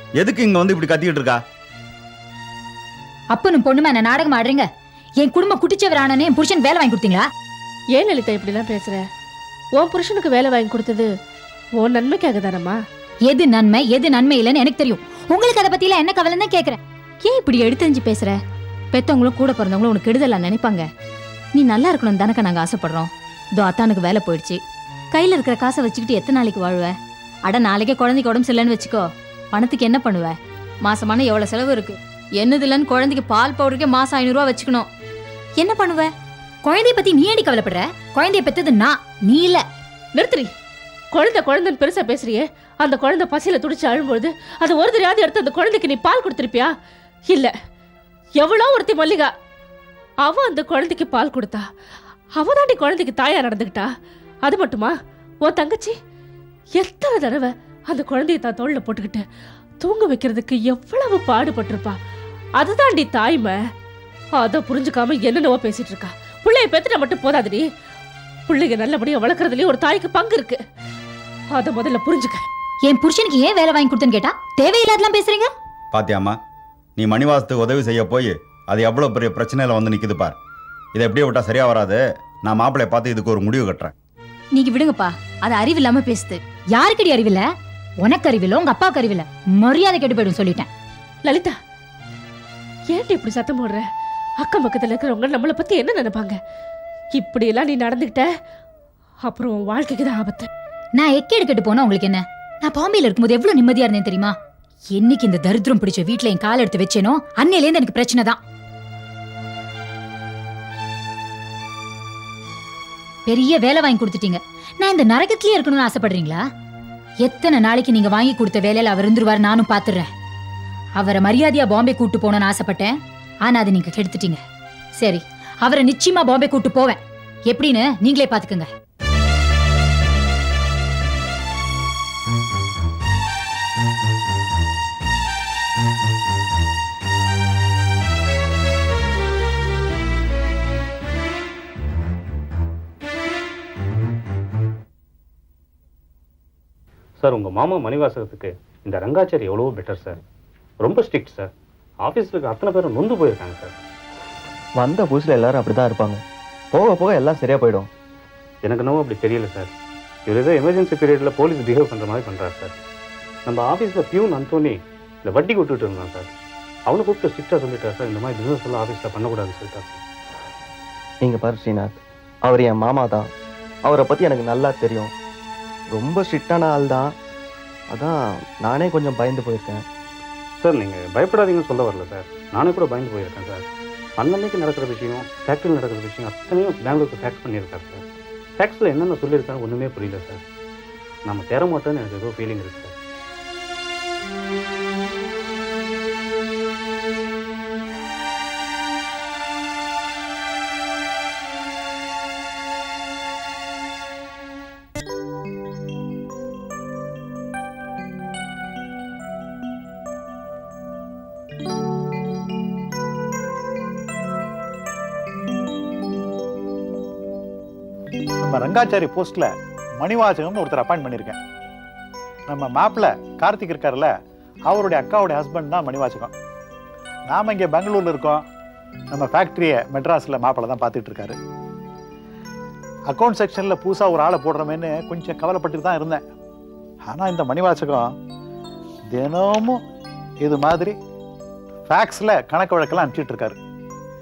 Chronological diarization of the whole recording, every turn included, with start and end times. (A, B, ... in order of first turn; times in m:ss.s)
0:00.2-0:01.4 A
0:03.3-0:04.7 B
0:05.2-0:07.2 B
0:08.0-0:09.0 C
0:09.8-0:11.1 C
0:11.8-0:12.8 C
0:13.3-0:16.8 B
0:17.2-0:18.4 D
0:18.9-0:20.8 D
0:21.5-0:24.6 D
0:25.1-0:26.9 D
0:27.5-0:34.9 D
0:35.6-0:36.1 D
0:36.6-0:39.6 B
0:40.2-0:40.5 C
0:41.1-0:46.7 C
0:48.4-0:49.3 C
0:50.2-0:51.6 C
0:52.4-0:53.9 C
0:54.4-0:55.9 C
0:56.8-0:59.2 C
0:59.8-1:01.9 C
1:02.6-1:03.5 C
1:04.4-1:07.6 C
1:08.5-1:10.6 C
1:11.5-1:12.4 C
1:12.8-1:15.5 B
1:15.9-1:16.4 A
1:17.0-1:20.3 A
1:21.0-1:23.9 A
1:24.5-1:26.4 D
1:26.8-1:27.4 B
1:28.0-1:30.7 B
1:31.2-1:31.5 C
1:32.9-1:33.8 C
1:34.4-1:36.4 C
1:37.2-1:38.2 C
1:39.3-1:40.5 C
1:41.0-1:44.3 B
1:44.9-1:48.4 B
1:53.3-1:56.4 B
1:57.2-2:00.1 B
2:01.0-2:04.4 B
2:05.0-2:08.7 B
2:27.2-2:30.2 E
2:30.8-2:31.5 E
2:32.0-2:33.8 E
2:34.8-2:36.2 F
2:36.7-2:37.9 F
2:38.6-2:39.7 E
2:40.3-2:42.7 E
2:43.4-2:46.3 E
2:46.9-2:50.0 E
2:51.2-2:53.2 F
2:53.9-2:55.1 F
2:55.9-2:57.1 F
2:57.9-2:59.8 F
3:00.6-3:03.6 E
3:04.2-3:08.0 E
3:08.6-3:10.4 E
3:11.2-3:12.9 E
3:38.4-3:39.5 G
3:40.0-3:41.4 G
3:42.5-3:44.1 G
3:44.7-3:46.3 G
3:47.3-3:48.4 G
3:49.1-3:51.4 G
3:53.1-3:56.2 G
3:57.1-3:58.0 G
3:59.1-3:59.8 G
4:00.4-4:00.9 G
4:01.9-4:03.6 G